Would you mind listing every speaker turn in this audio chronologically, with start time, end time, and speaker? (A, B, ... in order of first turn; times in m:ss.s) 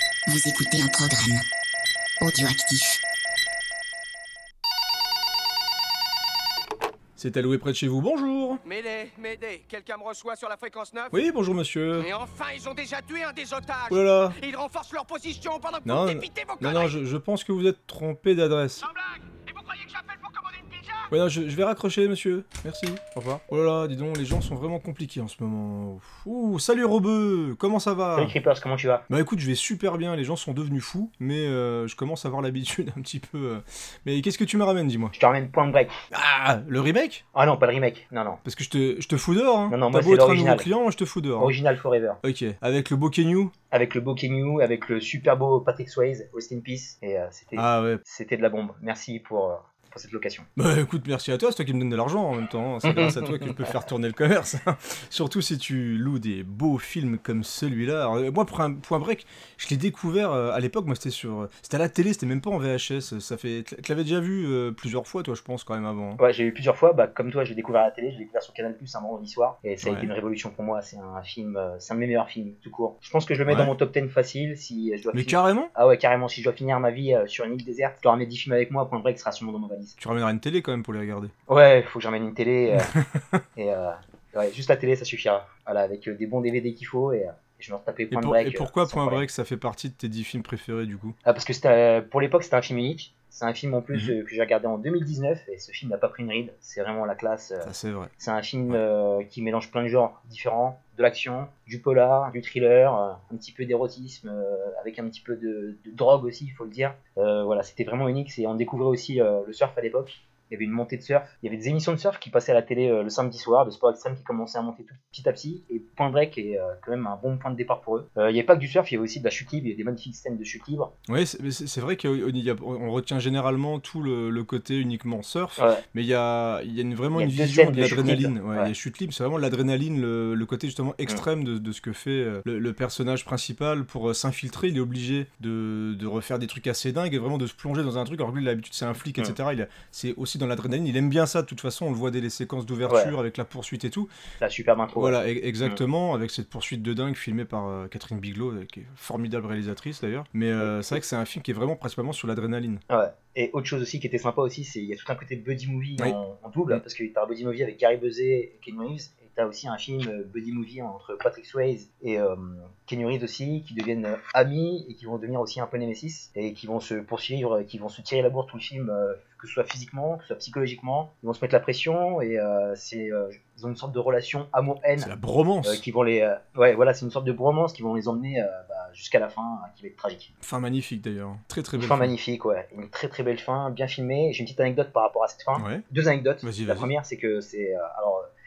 0:00.3-0:01.4 A
0:02.2-0:03.0 A
0:07.2-0:08.6 B
0:08.6-0:11.2 C
0:11.1-0:12.1 B
0:12.0-0:16.9 C
0:13.9-0:14.4 B
0:15.8-0:18.8 B
0:19.3-0:20.8 C
0:21.1-0:28.4 B
0:28.2-0:29.0 D
0:29.1-0:35.2 B
0:35.1-0:35.9 D
0:36.1-0:37.2 B
0:37.3-0:38.4 D
0:38.4-0:41.6 B
0:39.7-0:40.7 D
0:41.4-0:42.2 D
0:42.2-0:43.5 B
0:43.7-0:50.5 D
0:47.6-0:48.0 B
0:50.6-1:06.2 B
0:52.8-0:53.7 D
1:06.2-1:20.0 D
1:09.8-1:10.1 B
1:13.5-1:13.7 B
1:15.1-1:15.7 B
1:20.0-1:21.3 B
1:21.5-1:22.9 D
1:22.7-1:23.4 B
1:23.6-1:29.2 D
1:28.1-1:31.2 B
1:31.2-2:00.9 D
1:33.9-1:34.2 B
1:37.6-1:38.1 B
2:01.1-2:24.1 B
2:05.6-2:05.8 D
2:07.1-2:08.7 D
2:22.9-2:23.2 D
2:24.4-2:25.8 D
2:25.0-2:32.8 B
2:30.6-2:31.0 D
2:32.9-3:00.3 D
2:55.0-2:55.8 B
3:00.4-3:02.1 B
3:01.8-3:08.3 D
3:05.6-3:05.8 B
3:06.4-3:06.9 B